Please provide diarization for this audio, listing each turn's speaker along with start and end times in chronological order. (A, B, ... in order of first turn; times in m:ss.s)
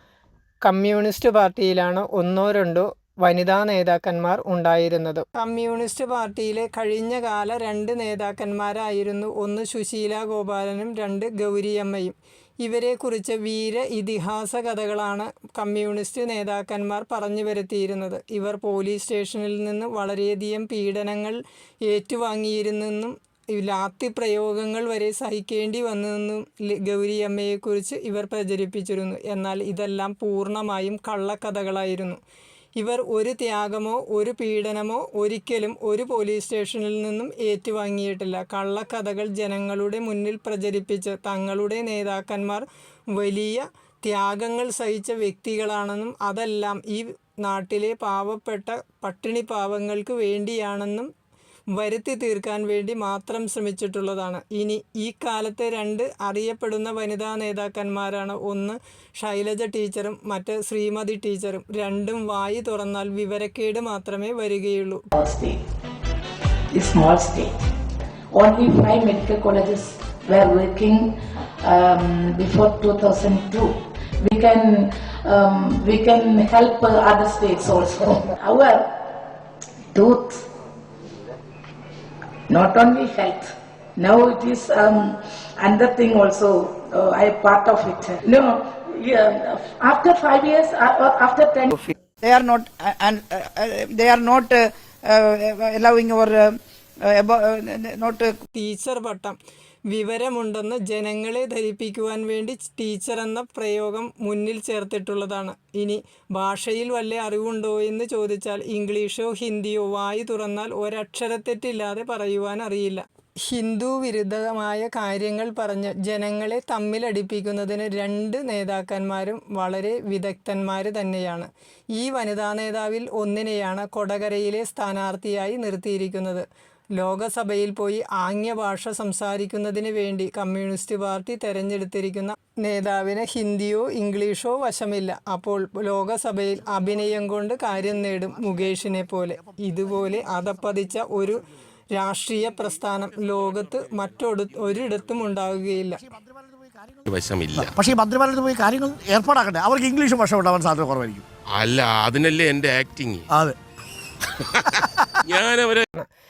0:00.6-0:32.2 A
0:32.8-0:51.1 A
0:51.8-1:05.0 A
1:05.1-1:05.7 B
1:06.7-1:07.7 B
1:08.3-1:19.1 B
1:19.9-1:20.5 B
1:22.5-1:31.8 B
1:32.2-1:36.5 C
1:37.1-1:38.3 C
1:38.5-1:39.4 A
1:39.9-2:06.5 A
2:07.0-2:21.4 A
2:22.0-2:26.0 A
2:27.1-2:27.8 D
2:27.5-2:31.2 E
2:31.5-2:33.3 D
2:33.3-2:33.6 E
2:35.3-2:35.8 D